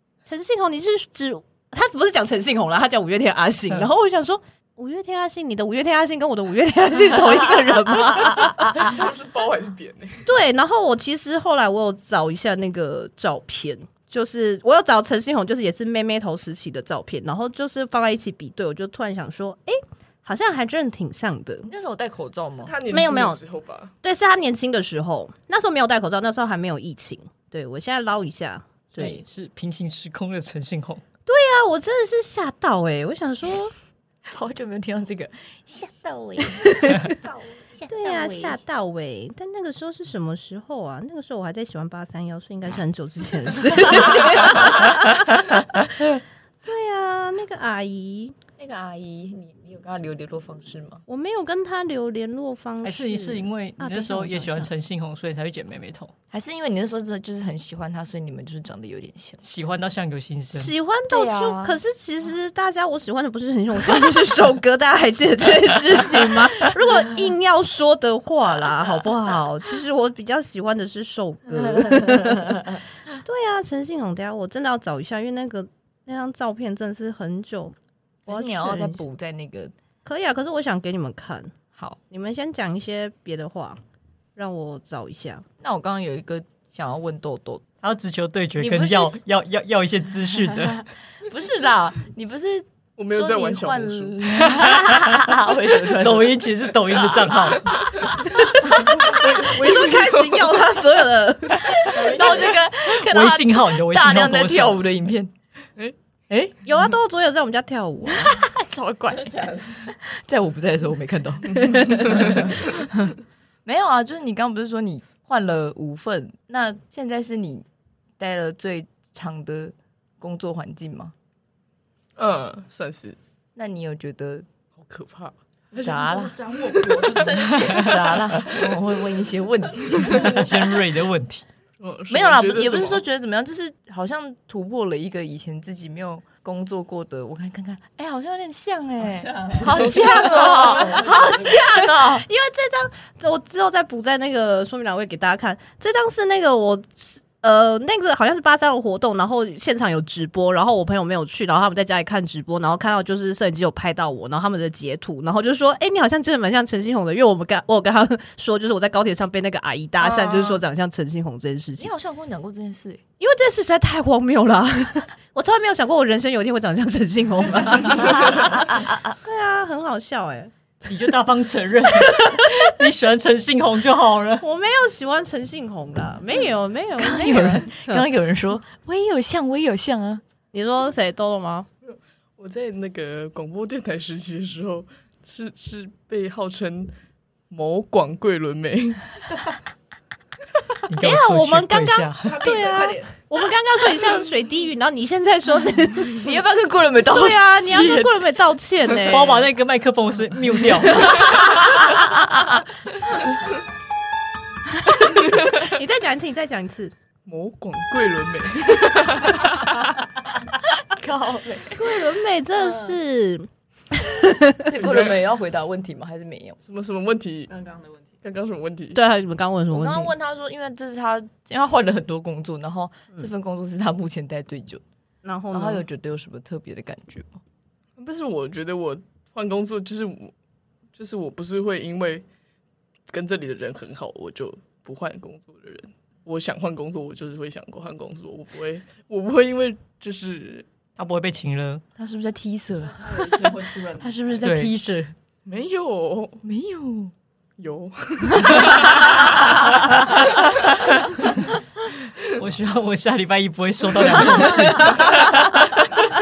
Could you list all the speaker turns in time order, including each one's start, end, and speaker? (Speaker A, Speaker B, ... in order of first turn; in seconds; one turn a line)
Speaker A: 0.2-9.0
Speaker B: 8.4-10.3
Speaker A: 10.2-21.7
Speaker C: 21.7-22.7
Speaker B: 22.6-23.9
Speaker A: 22.9-23.4
Speaker A: 24.0-29.2
Speaker D: 29.0-31.0
Speaker A: 31.3-33.7
Speaker C: 34.3-38.6
Speaker A: 36.6-37.1
Speaker A: 37.9-48.4
Speaker C: 48.6-51.0
Speaker A: 51.1-54.7
Speaker D: 52.8-56.1
Speaker C: 56.3-59.4
Speaker D: 59.4-60.7
Speaker A: 60.5-77.7
Speaker C: 61.1-61.8
Speaker C: 78.2-79.7
Speaker A: 78.3-79.0
Speaker A: 80.0-81.5
Speaker A: 82.1-83.8
Speaker A: 84.3-85.4
Speaker C: 85.6-87.6
Speaker D: 87.8-90.8
Speaker C: 88.6-89.1
Speaker C: 91.2-96.3
Speaker B: 93.0-94.2
Speaker D: 94.5-95.2
Speaker D: 95.9-97.7
Speaker C: 97.0-98.9
Speaker B: 98.8-100.5
Speaker A: 99.1-102.0
Speaker C: 101.7-105.3
Speaker E: 101.9-102.5
Speaker D: 102.9-104.8
Speaker A: 106.6-108.3
Speaker C: 108.0-112.7
Speaker E: 109.1-109.7
Speaker B: 111.8-112.6
Speaker C: 113.6-117.6
Speaker C: 118.2-121.1
Speaker B: 122.2-123.2
Speaker C: 123.5-124.5
Speaker B: 124.8-126.0
Speaker E: 125.7-128.0
Speaker C: 125.8-126.4
Speaker B: 126.5-127.4
Speaker C: 127.0-130.5
Speaker D: 130.1-131.4
Speaker B: 131.8-133.0
Speaker C: 132.1-142.2
Speaker E: 139.1-141.4
Speaker A: 139.8-161.9
Speaker E: 160.0-160.6
Speaker C: 161.8-163.0
Speaker A: 163.2-170.5
Speaker D: 170.8-174.4
Speaker A: 171.9-172.4
Speaker A: 174.4-178.1
Speaker C: 177.0-180.2
Speaker A: 180.5-181.7
Speaker B: 181.8-186.9
Speaker B: 187.5-189.1
Speaker D: 190.9-192.5
Speaker A: 190.9-196.4
Speaker E: 192.2-193.1
Speaker C: 196.2-198.1
Speaker A: 197.1-199.5
Speaker D: 199.1-201.9
Speaker A: 200.8-202.4
Speaker A: 204.8-206.9
Speaker B: 207.2-209.9
Speaker C: 210.8-211.9
Speaker A: 211.7-214.6
Speaker C: 214.6-216.6
Speaker B: 214.8-215.2
Speaker B: 216.6-217.5
Speaker E: 217.5-218.1
Speaker B: 218.2-219.0
Speaker A: 218.9-220.1
Speaker C: 219.7-224.8
Speaker A: 225.2-225.8
Speaker C: 225.5-227.4
Speaker B: 228.0-230.3
Speaker B: 230.9-232.2
Speaker B: 233.1-240.7
Speaker D: 241.0-241.8
Speaker C: 242.0-245.1
Speaker E: 242.8-244.2
Speaker D: 244.4-244.7
Speaker B: 245.4-246.4
Speaker C: 246.4-247.1
Speaker B: 247.6-249.4
Speaker C: 248.5-248.7
Speaker D: 252.2-255.8
Speaker A: 254.7-255.0